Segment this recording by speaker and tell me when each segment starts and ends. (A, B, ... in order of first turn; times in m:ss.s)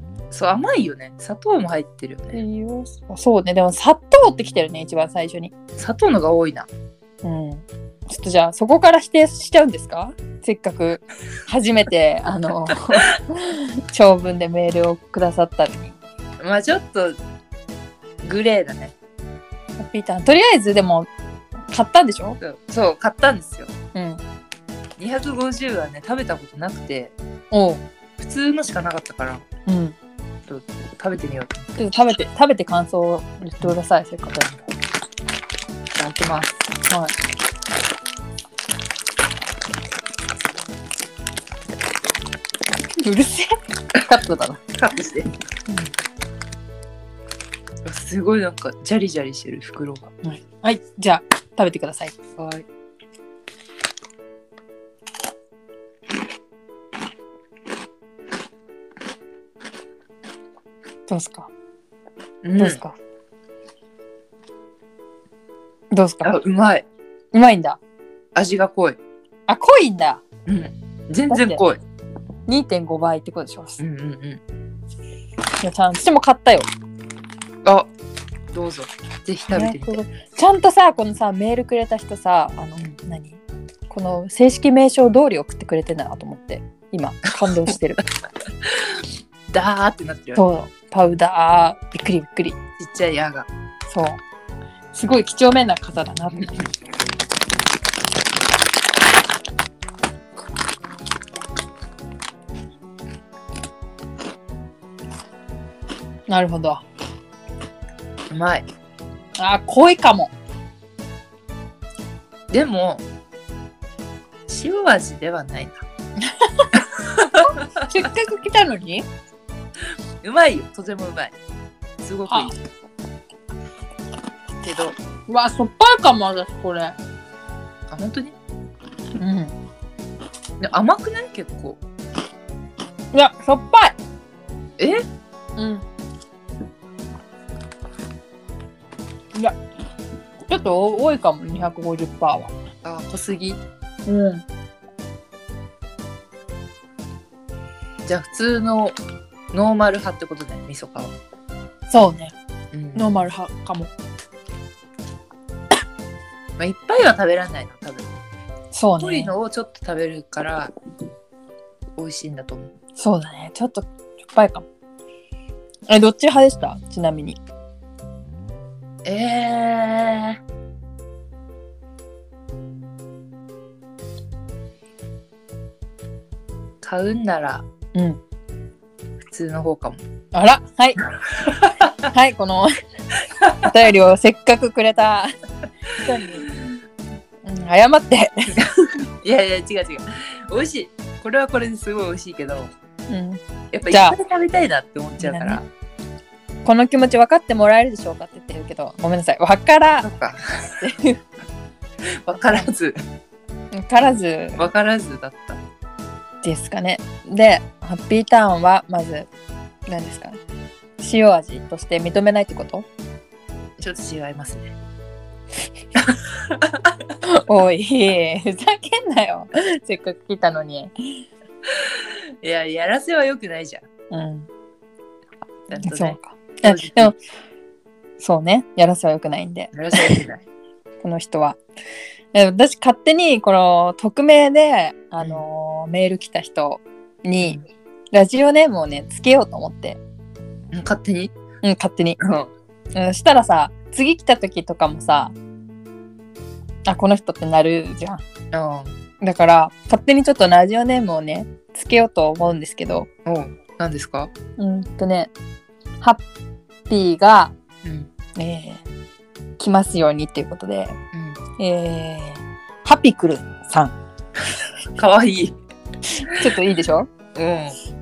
0:00.3-0:02.4 A
0:02.3-0:05.5 B
0:05.8-0:06.7 A
0:07.2-0:16.0 B
0:16.4-0:17.2 A
0:18.2-0:18.9 A
0:19.8-0:21.1 B
0:21.7-0:22.4 B
0:22.4-0:23.7 A
0:23.9-0:24.2 B
0:25.0-0:27.1 A
0:27.5-0:27.8 B
0:28.2-0:29.4 A
0:29.7-0:30.0 B
0:30.5-0:31.7 A
0:31.8-0:34.7 B
0:35.9-0:36.6 A
0:36.9-0:37.1 B
0:43.0-0:44.6 B
0:44.7-0:45.3 A
0:47.8-0:50.1 A
0:50.2-0:52.2 B
0:52.4-0:52.6 A
1:01.1-1:01.5 B
1:02.4-1:02.8 A
1:02.5-1:03.0 B
1:05.9-1:06.4 B
1:06.2-1:06.8 A
1:07.3-1:07.8 B
1:08.3-1:09.0 A
1:09.5-1:10.2 B
1:10.5-1:11.8 A
1:11.3-1:11.6 B
1:12.5-1:13.8 B
1:13.8-1:14.4 A
1:15.6-1:16.7 B
1:17.6-1:17.9 A
1:18.5-1:20.0 A
1:19.5-1:28.0 B
1:29.5-1:30.4 A
1:30.4-1:32.6 B
1:32.8-1:33.5 A
1:33.9-1:34.2 B
1:34.9-1:36.6 B
1:36.3-1:36.6 A
1:46.3-1:46.8 B
1:48.3-1:48.7 A
1:49.4-1:50.3 B
1:52.5-1:53.0 A
1:54.5-1:55.8 A
1:56.2-1:56.8 B
1:56.8-1:57.4 A
1:57.8-1:59.0 B
2:00.2-2:01.4 A
2:02.0-2:02.5 A
2:02.3-2:02.5 B
2:04.6-2:04.9 A
2:05.3-2:07.0 B
2:07.9-2:08.4 A
2:09.2-2:09.5 B
2:10.6-2:11.8 A
2:13.1-2:14.0 B
2:14.8-2:15.0 A
2:15.6-2:15.8 B
2:20.5-2:22.5 B
2:22.8-2:23.6 A
2:24.0-2:24.4 B
2:28.0-2:29.0 A
2:29.5-2:31.1 A
2:31.9-2:32.3 B
2:32.7-2:33.3 A
2:32.9-2:33.9 B
2:36.6-2:38.1 A
2:38.7-2:39.3 B
2:39.0-2:40.7 A
2:42.0-2:42.7 A
2:43.0-2:44.6 B
2:45.9-2:47.4 B
2:49.0-2:50.4 A
2:56.8-2:57.6 A
2:57.9-2:58.2 B
2:59.3-3:00.0 A
3:00.3-3:01.0 B
3:01.4-3:01.9 A
3:02.0-3:02.7 B
3:03.3-3:03.7 A
3:03.6-3:05.3 B
3:05.9-3:06.5 B
3:07.4-3:08.4 B
3:08.6-3:12.7 A
3:13.1-3:14.2 B
3:13.7-3:15.6 A
3:15.2-3:15.7 B
3:16.6-3:20.1 B
3:20.0-3:20.8 A
3:20.8-3:21.2 B
3:22.2-3:23.0 A
3:23.7-3:24.6 B
3:24.6-3:25.6 A
3:26.4-3:29.3 B
3:29.9-3:30.4 B
3:31.0-3:32.8 B
3:33.8-3:34.7 A
3:36.1-3:36.9 A
3:37.2-3:40.9 B
3:41.8-3:43.8 A
3:44.1-3:44.5 B
3:45.7-3:47.1 A
3:45.8-3:47.2 B
3:48.2-3:50.2 B
3:49.7-3:50.4 A
3:51.0-3:51.6 B
3:52.3-4:00.0 B
3:55.2-3:55.4 A
4:00.7-4:01.3 A
4:01.6-4:02.2 B
4:02.2-4:02.5 A
4:02.9-4:05.3 B
4:06.8-4:08.2 B
4:08.5-4:09.0 A
4:09.2-4:13.1 B
4:13.2-4:14.3 A
4:14.6-4:15.3 B
4:16.9-4:17.5 B
4:18.4-4:18.8 B
4:19.6-4:21.0 B
4:21.1-4:21.4 A
4:21.6-4:24.0 B
4:25.0-4:25.6 A
4:26.2-4:27.1 B
4:27.3-4:27.8 A